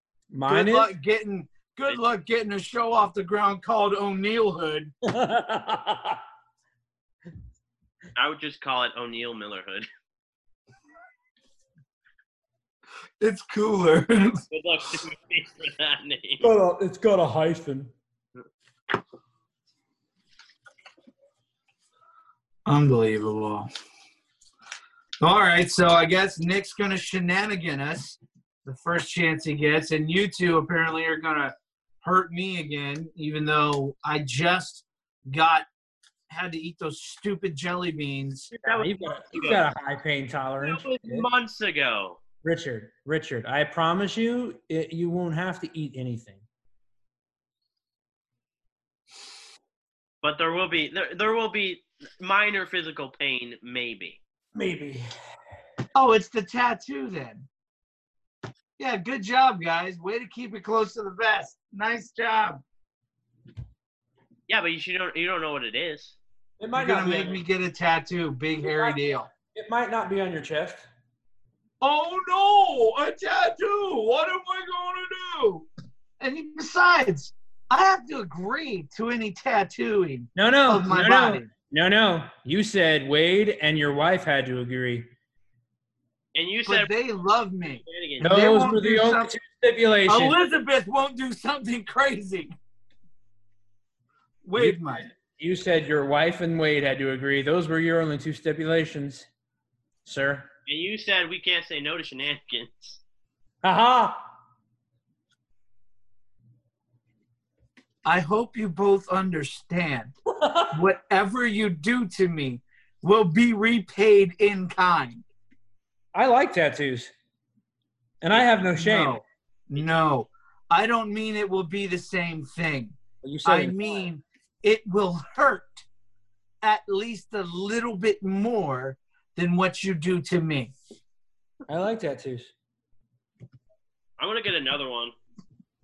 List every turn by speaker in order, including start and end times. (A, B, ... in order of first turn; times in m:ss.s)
0:00.3-0:00.9 A
0:00.5-0:04.9 B
0:05.0-0:06.2 A
0:08.2-0:09.9 C
0:13.2-0:14.4 B
0:14.5-0:16.5 C
0:16.4-0:17.9 A
0:22.6-0:23.7 B
0:25.2-0:35.7 B
0:36.3-0:38.5 B
0:38.5-0:39.6 C
0:38.6-0:41.3 A
0:40.6-0:42.2 C
0:42.4-0:46.4 A
0:50.2-0:54.2 C
0:54.5-0:55.1 A
0:55.9-0:57.5 B
0:58.8-1:02.6 B
1:04.5-1:06.2 C
1:06.6-1:07.4 A
1:06.7-1:09.3 B
1:08.6-1:10.9 A
1:11.8-1:15.6 B
1:16.2-1:21.5 B
1:20.3-1:25.1 A
1:26.3-1:26.9 C
1:26.6-1:29.3 B
1:27.8-1:28.3 C
1:28.2-1:30.4 A
1:30.1-1:32.5 B
1:34.4-1:35.1 B
1:34.6-1:39.3 A
1:40.0-1:40.5 A
1:40.6-1:43.0 C
1:43.6-1:44.3 A
1:48.0-1:50.1 B
1:50.3-1:50.8 A
1:50.7-1:55.2 B
1:56.1-1:57.1 A
1:58.2-1:59.2 A
1:58.3-2:05.8 B
2:03.2-2:04.0 A
2:06.6-2:10.7 B
2:11.7-2:12.5 A
2:14.2-2:15.1 C